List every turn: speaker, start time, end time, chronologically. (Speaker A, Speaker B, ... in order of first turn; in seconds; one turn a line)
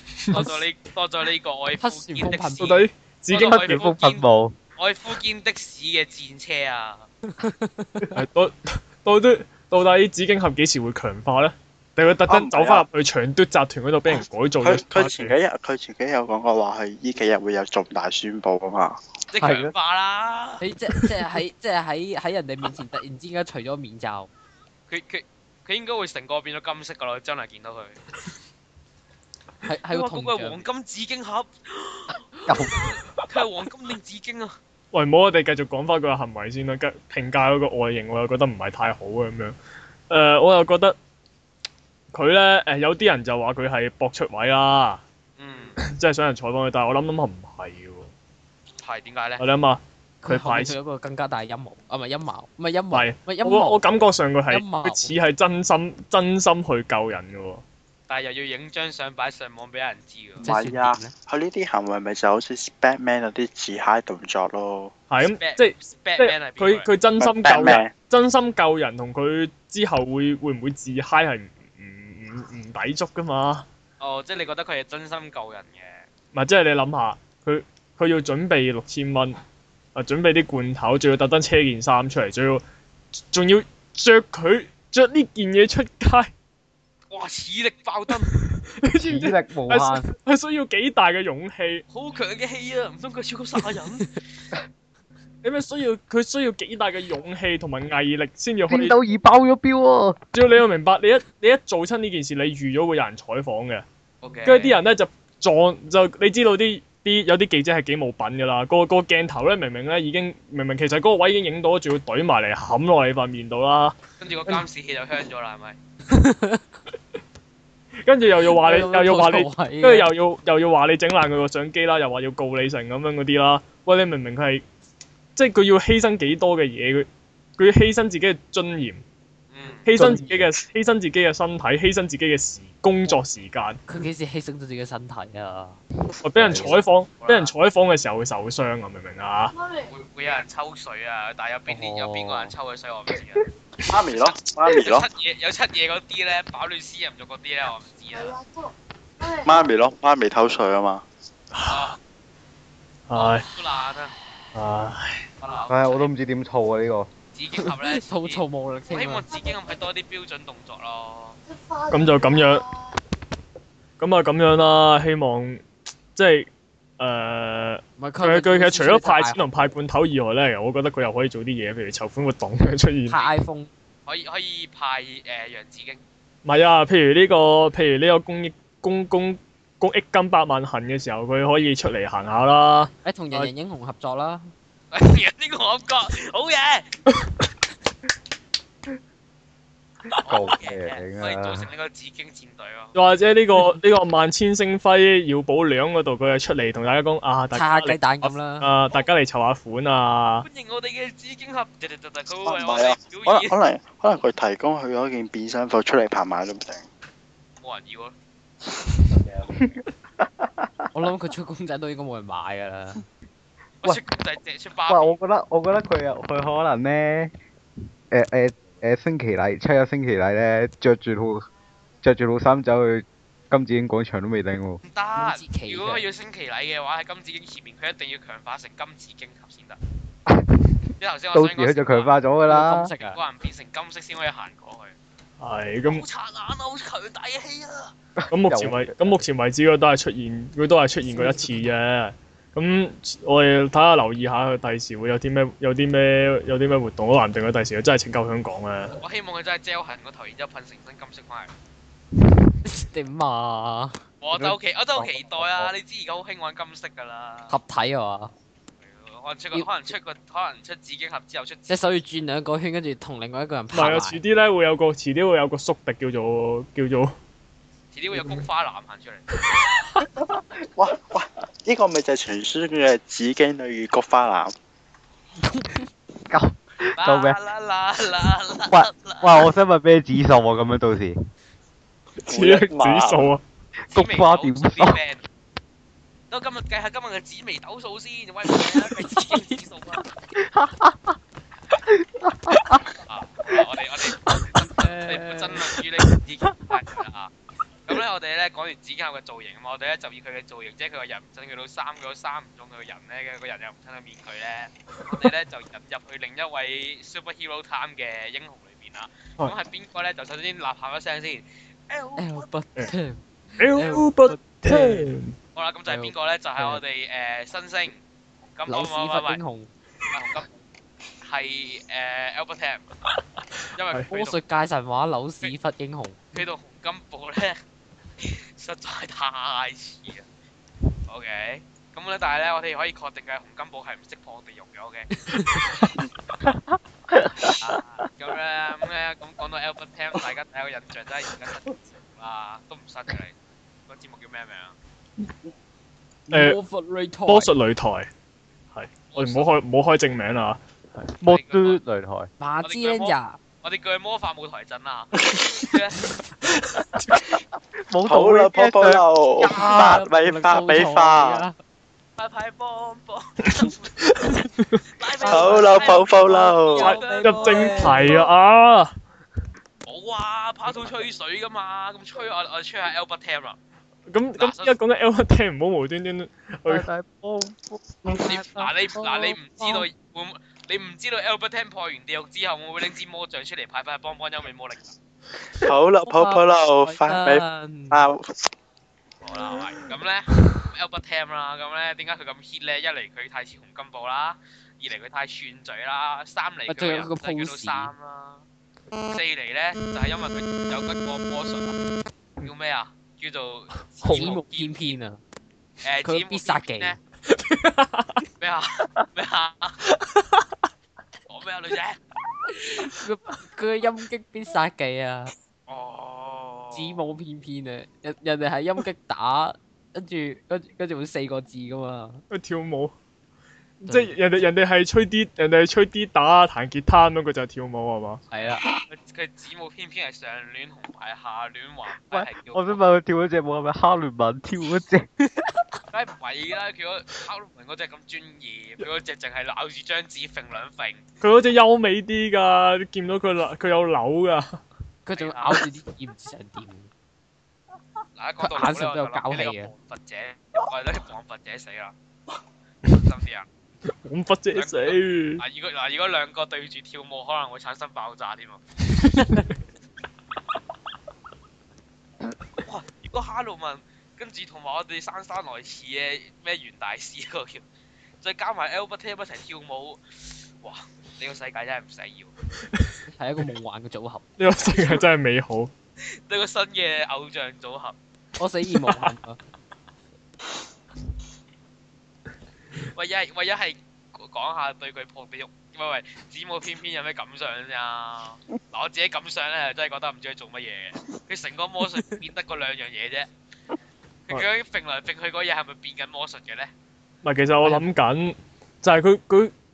Speaker A: 0.3-4.2
Speaker B: 0.3-0.6
Speaker B: 1.8-2.8
Speaker C: 2.6-3.8
Speaker D: 3.3-4.6
Speaker A: 4.8-7.1
Speaker B: 7.3-8.1
Speaker C: 8.2-15.3
Speaker E: 12.3-12.9
Speaker E: 14.6-19.0
Speaker A: 19.3-20.6
Speaker D: 19.4-19.7
Speaker B: 20.6-24.3
Speaker A: 24.9-28.0
Speaker B: 29.6-30.6
Speaker A: 29.9-34.6
Speaker D: 32.5-33.0
Speaker C: 34.9-39.6
Speaker C: 40.1-41.0
Speaker C: 42.1-45.0
Speaker A: 45.4-45.8
Speaker C: 45.8-48.1
Speaker A: 48.8-49.4
Speaker C: 49.4-50.8
Speaker B: 50.2-53.8
Speaker C: 52.9-57.6
Speaker B: 54.5-55.2
Speaker A: 58.1-60.5
Speaker B: 60.4-61.1
Speaker E: 60.4-64.9
Speaker C: 65.1-73.7
Speaker A: 65.2-66.9
Speaker E: 67.2-67.9
Speaker A: 74.0-76.1
Speaker C: 76.3-79.4
Speaker C: 80.0-82.6
Speaker C: 83.3-86.3
Speaker A: 87.1-88.3
Speaker C: 88.2-91.8
Speaker D: 88.9-90.1
Speaker A: 91.9-94.2
Speaker C: 95.4-99.0
Speaker D: 98.7-100.2
Speaker C: 100.3-103.8
Speaker A: 104.2-104.8
Speaker C: 104.5-114.6
Speaker A: 114.2-115.8
Speaker B: 116.1-116.7
Speaker C: 118.0-124.6
Speaker B: 118.5-120.1
Speaker C: 125.4-129.0
Speaker A: 129.5-129.9
Speaker C: 129.8-133.8
Speaker D: 129.9-130.5
Speaker B: 133.9-135.8
Speaker C: 136.2-139.6
Speaker D: 136.3-136.7
Speaker A: 137.2-137.5
Speaker A: 139.7-143.5
Speaker D: 141.7-142.5
Speaker E: 143.8-145.1
Speaker A: 144.1-148.4
Speaker E: 149.3-151.1
Speaker C: 151.5-152.0
Speaker A: 151.7-152.0
Speaker C: 153.1-153.5
Speaker A: 153.1-154.2
Speaker C: 154.5-155.3
Speaker A: 155.4-156.1
Speaker D: 155.7-157.1
Speaker A: 157.3-161.4
Speaker B: 157.6-159.3
Speaker C: 161.9-162.7
Speaker C: 164.0-165.6
Speaker C: 166.2-173.2
Speaker B: 168.0-169.4
Speaker B: 173.1-173.7
Speaker A: 174.1-176.0
Speaker C: 176.4-183.5
Speaker B: 183.0-184.5
Speaker A: 184.9-186.9
Speaker A: 190.2-192.9
Speaker D: 190.2-191.7
Speaker C: 192.9-200.5
Speaker B: 197.5-198.7
Speaker A: 200.4-203.6
Speaker E: 202.4-206.9
Speaker A: 207.6-208.2
Speaker B: 210.9-213.0
Speaker A: 213.8-215.2
Speaker D: 214.9-217.3
Speaker D: 218.1-221.4
Speaker D: 222.0-224.8
Speaker A: 224.8-229.8
Speaker B: 225.2-226.1
Speaker D: 230.3-230.8
Speaker A: 231.0-232.2
Speaker D: 231.3-232.9
Speaker B: 232.5-233.2
Speaker A: 232.9-235.0
Speaker C: 235.4-236.1
Speaker A: 235.8-237.9
Speaker D: 238.2-239.2
Speaker C: 238.3-249.0
Speaker A: 249.0-251.5
Speaker B: 252.7-254.0
Speaker A: 254.2-257.5
Speaker D: 255.0-255.7
Speaker B: 257.5-258.3
Speaker A: 258.8-261.8
Speaker B: 259.5-259.9
Speaker B: 261.7-264.2
Speaker C: 263.7-267.1
Speaker A: 267.9-269.2
Speaker C: 268.1-268.4
Speaker C: 269.5-270.0
Speaker E: 270.8-274.5
Speaker B: 275.4-275.8
Speaker D: 276.3-277.4
Speaker A: 277.0-279.5
Speaker D: 278.7-281.2
Speaker C: 282.2-283.4
Speaker E: 282.3-283.4
Speaker D: 283.9-285.0
Speaker A: 283.9-285.2
Speaker A: 286.3-290.1
Speaker B: 288.8-289.5
Speaker D: 290.4-291.2
Speaker D: 291.9-292.8
Speaker A: 293.0-297.3
Speaker B: 294.7-295.7
Speaker A: 297.9-312.5
Speaker B: 312.2-315.1
Speaker C: 313.6-315.4
Speaker A: 315.6-318.0
Speaker B: 315.9-316.8
Speaker A: 318.6-319.4
Speaker B: 318.7-319.7
Speaker A: 320.1-320.6
Speaker A: 321.2-322.9
Speaker C: 323.1-324.1
Speaker A: 323.8-324.4
Speaker B: 324.1-326.2
Speaker A: 326.3-327.6
Speaker A: 328.2-330.3
Speaker A: 331.1-335.8
Speaker D: 337.1-337.8
Speaker A: 337.4-343.4
Speaker A: 343.9-344.8
Speaker B: 346.3-347.6
Speaker C: 346.3-346.6
Speaker C: 347.3-348.1
Speaker C: 348.7-351.2
Speaker A: 349.1-349.5
Speaker D: 351.2-352.3
Speaker A: 351.2-351.8
Speaker B: 352.4-353.4
Speaker A: 352.6-356.1
Speaker C: 356.6-357.2
Speaker D: 357.9-359.1
Speaker E: 358.1-361.5
Speaker B: 359.4-361.6
Speaker D: 359.6-360.0
Speaker A: 362.2-363.9
Speaker C: 363.5-364.8
Speaker A: 364.9-368.1
Speaker B: 365.2-368.3
Speaker E: 365.3-366.9
Speaker C: 366.8-368.9
Speaker A: 369.9-373.6
Speaker C: 374.1-376.9
Speaker A: 374.4-374.8
Speaker D: 376.7-378.2
Speaker B: 378.1-379.9
Speaker A: 378.2-384.9
Speaker E: 385.5-388.3
Speaker B: 386.1-388.1
Speaker A: 389.2-398.4
Speaker B: 396.7-397.9
Speaker A: 399.0-401.8
Speaker A: 402.4-405.0
Speaker B: 404.0-405.2
Speaker C: 404.1-404.3
Speaker A: 405.8-407.0
Speaker B: 406.1-407.0
Speaker C: 407.3-408.2
Speaker A: 408.4-409.8
Speaker C: 409.9-410.4
Speaker A: 411.3-412.0
Speaker B: 412.7-415.3
Speaker A: 415.7-417.0
Speaker B: 416.7-422.2
Speaker C: 422.3-422.9
Speaker C: 423.8-428.2
Speaker B: 423.9-424.2
Speaker B: 428.3-428.7
Speaker A: 428.4-432.9
Speaker D: 432.1-435.1
Speaker A: 435.9-441.1
Speaker C: 441.2-444.6
Speaker B: 445.1-446.9
Speaker A: 445.1-445.7
Speaker A: 448.2-451.9
Speaker B: 448.4-449.7
Speaker A: 452.9-453.5
Speaker C: 454.1-455.4
Speaker A: 454.5-458.6
Speaker C: 459.0-459.5
Speaker A: 462.6-467.6
Speaker A: 468.2-472.3
Speaker B: 473.1-474.2
Speaker C: 474.4-475.7
Speaker A: 476.0-478.0
Speaker B: 478.4-479.4
Speaker C: 478.7-479.1
Speaker A: 482.9-493.3
Speaker A: 494.3-496.7
Speaker C: 497.2-499.5